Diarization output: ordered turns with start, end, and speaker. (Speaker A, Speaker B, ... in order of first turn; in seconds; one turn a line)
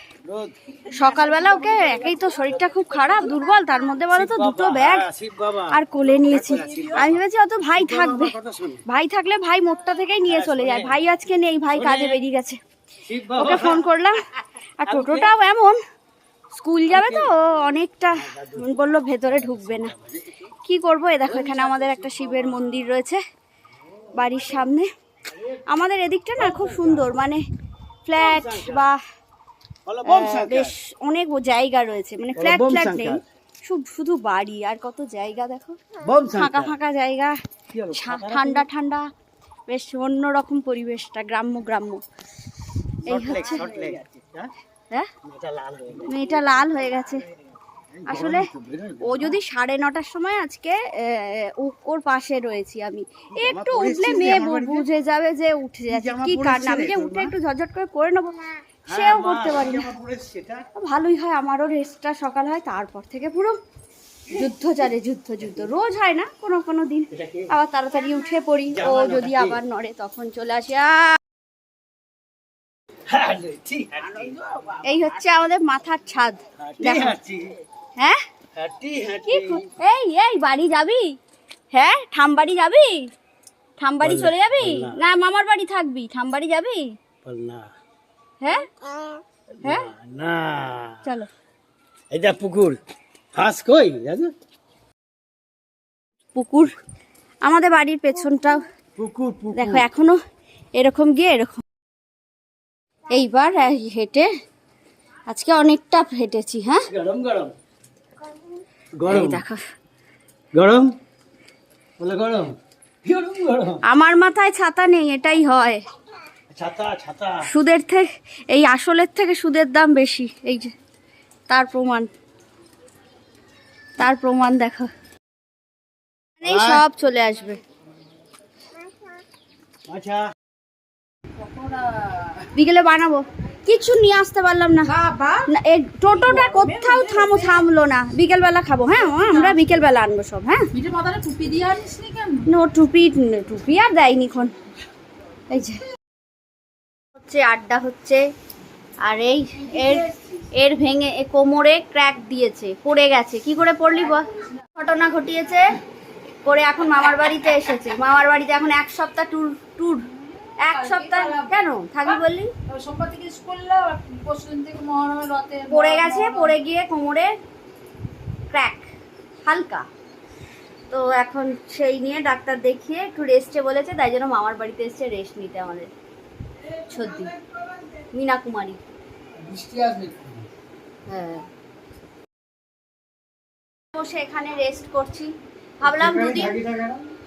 Speaker A: 0.2-0.5
Speaker B: 0.9-5.1
Speaker A: 2.6-3.1
Speaker A: 4.1-7.2
Speaker B: 5.7-8.3
Speaker A: 7.7-8.8
Speaker B: 8.9-12.6
Speaker A: 10.3-11.0
Speaker A: 11.7-12.2
Speaker A: 13.0-13.9
Speaker B: 13.3-14.2
Speaker B: 14.8-15.8
Speaker A: 14.8-15.3
Speaker B: 16.5-19.9
Speaker A: 16.9-17.3
Speaker A: 18.1-18.8
Speaker A: 19.3-20.5
Speaker B: 20.6-23.2
Speaker A: 21.2-22.7
Speaker B: 24.1-24.9
Speaker B: 25.7-27.4
Speaker A: 26.4-27.1
Speaker B: 28.0-29.0
Speaker A: 28.1-28.9
Speaker A: 29.9-30.7
Speaker B: 30.1-35.8
Speaker A: 32.4-33.2
Speaker A: 36.0-36.8
Speaker B: 36.3-37.4
Speaker A: 37.7-38.7
Speaker B: 37.9-39.1
Speaker B: 39.7-42.0
Speaker A: 43.0-44.5
Speaker B: 43.0-43.6
Speaker A: 45.2-46.4
Speaker B: 46.0-47.2
Speaker A: 48.0-49.4
Speaker B: 48.0-48.5
Speaker B: 49.0-59.9
Speaker A: 53.3-54.9
Speaker A: 55.9-57.3
Speaker A: 58.9-60.7
Speaker B: 60.8-63.6
Speaker B: 64.3-71.2
Speaker A: 67.1-67.5
Speaker A: 68.7-69.6
Speaker A: 73.0-74.4
Speaker B: 74.8-77.1
Speaker A: 76.6-77.6
Speaker A: 78.5-79.7
Speaker B: 79.3-81.2
Speaker B: 81.7-83.1
Speaker B: 83.8-86.9
Speaker A: 84.0-85.0
Speaker A: 87.2-87.7
Speaker B: 88.4-88.7
Speaker A: 89.6-91.0
Speaker B: 91.0-91.3
Speaker A: 92.1-92.8
Speaker A: 93.4-94.3
Speaker B: 96.3-96.8
Speaker B: 97.4-98.6
Speaker A: 99.0-99.9
Speaker B: 99.5-100.2
Speaker B: 100.8-101.6
Speaker B: 103.1-104.3
Speaker B: 105.3-106.9
Speaker A: 106.9-107.5
Speaker A: 109.0-109.4
Speaker B: 109.1-109.6
Speaker A: 110.5-110.9
Speaker A: 112.0-113.8
Speaker B: 113.9-115.8
Speaker A: 116.5-117.4
Speaker B: 117.5-120.7
Speaker B: 121.5-122.1
Speaker B: 124.0-124.9
Speaker B: 126.4-127.6
Speaker A: 126.4-126.8
Speaker A: 129.9-130.2
Speaker C: 131.4-132.5
Speaker B: 132.5-134.9
Speaker C: 134.9-135.5
Speaker B: 135.5-140.7
Speaker C: 136.1-137.6
Speaker C: 139.1-139.6
Speaker C: 140.7-142.5
Speaker B: 142.5-144.5
Speaker B: 145.5-145.8
Speaker B: 147.2-148.2
Speaker B: 149.0-155.7
Speaker B: 156.4-160.0
Speaker C: 160.6-161.5
Speaker B: 160.6-162.5
Speaker C: 162.7-166.5
Speaker B: 165.7-167.3
Speaker B: 168.5-168.9
Speaker B: 169.4-169.9
Speaker B: 170.9-175.9
Speaker B: 176.8-177.3
Speaker B: 178.1-178.8
Speaker A: 179.4-180.5
Speaker B: 181.1-181.5
Speaker B: 183.9-186.6
Speaker A: 185.8-187.0